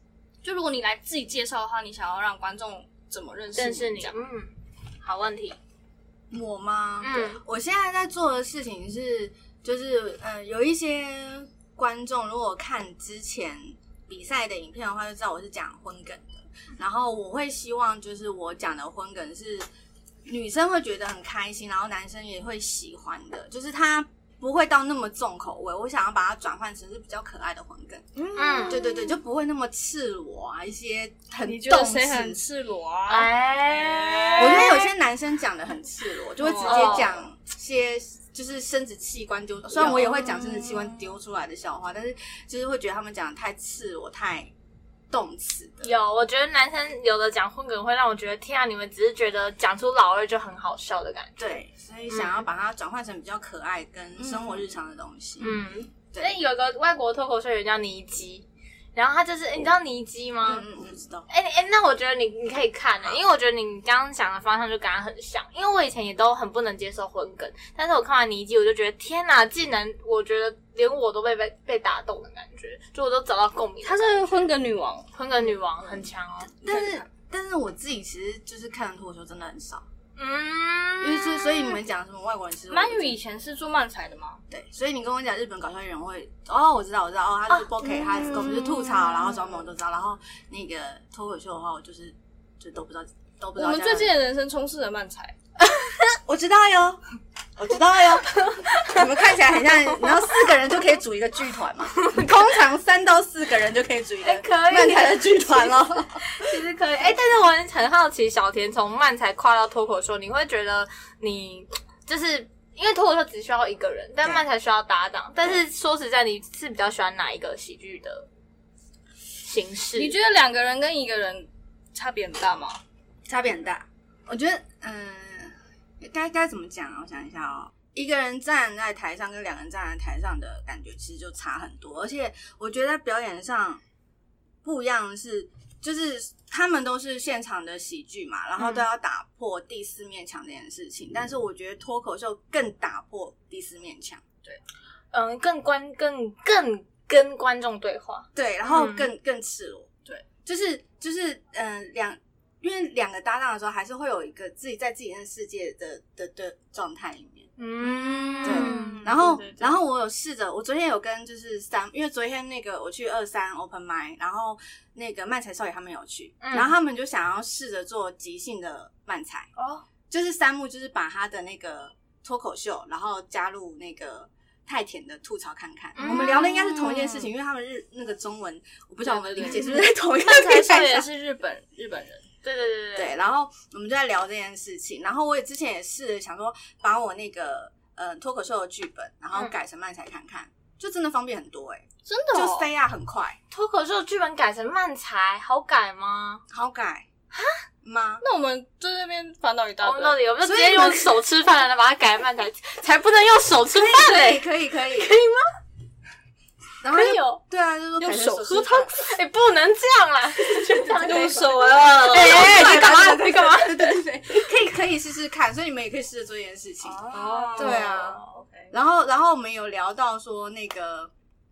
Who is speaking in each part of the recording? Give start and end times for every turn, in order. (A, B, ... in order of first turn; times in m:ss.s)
0:00.4-0:04.1 A
0:03.6-0:05.6 B
0:06.3-0:19.7 C
0:07.0-0:07.4 B
0:20.2-0:28.0 C
0:28.2-0:29.1 A
0:28.4-0:28.9 B
0:28.6-0:32.4 C
0:31.4-0:34.8 A
0:33.1-0:34.9 B
0:34.4-0:44.5 C
0:36.4-0:37.1 A
0:36.6-0:37.1 B
0:39.7-0:41.1 A
0:45.1-0:45.9 C
0:45.8-0:52.5 B
0:51.4-0:55.6 C
0:54.2-0:54.6 A
0:55.4-1:00.7 B
0:56.1-0:56.4 C
1:00.4-1:01.3 C
1:01.3-1:14.5 B
1:13.8-1:16.0 A
1:15.1-1:16.5 B
1:16.6-1:19.8 C
1:16.6-1:17.0 A
1:20.2-1:21.8 B
1:21.0-1:23.2 C
1:22.7-1:24.4 A
1:24.5-1:34.1 C
1:27.6-1:29.4 A
1:33.6-1:35.4 A
1:35.8-1:37.0 C
1:37.6-1:46.3 C
1:38.2-1:39.1 B
1:40.0-1:40.5 B
1:42.0-1:42.3 B
1:44.2-1:58.3 B
1:59.4-2:00.1 B
2:00.0-2:02.8 A
2:03.3-2:13.8 C
2:14.6-2:24.2 C
2:18.6-2:18.8 B
2:25.1-2:29.1 B
2:28.3-2:29.9 C
2:30.4-2:37.5 C
2:37.6-2:39.7 B
2:37.8-2:39.3 A
2:38.4-2:49.5 C
2:46.4-2:46.7 B
2:49.6-2:49.8 B
2:50.1-3:01.1 C
2:56.0-2:57.3 B
2:56.0-2:56.5 A
2:59.1-3:02.2 A
2:59.4-2:59.7 B
3:02.4-3:03.1 B
3:03.0-3:13.4 C
3:12.0-3:12.7 A
3:13.5-3:16.4 B
3:16.5-3:17.1 C
3:17.8-3:18.2 C
3:18.2-3:20.2 A
3:19.8-3:25.4 B
3:20.4-3:21.1 C
3:23.7-3:25.2 C
3:26.8-3:28.9 C
3:26.8-3:27.4 B
3:28.0-3:28.9 A
3:28.9-3:34.0 B
3:30.9-3:33.2 A
3:32.0-3:41.1 C
3:37.0-3:38.7 A
3:37.0-3:38.2 B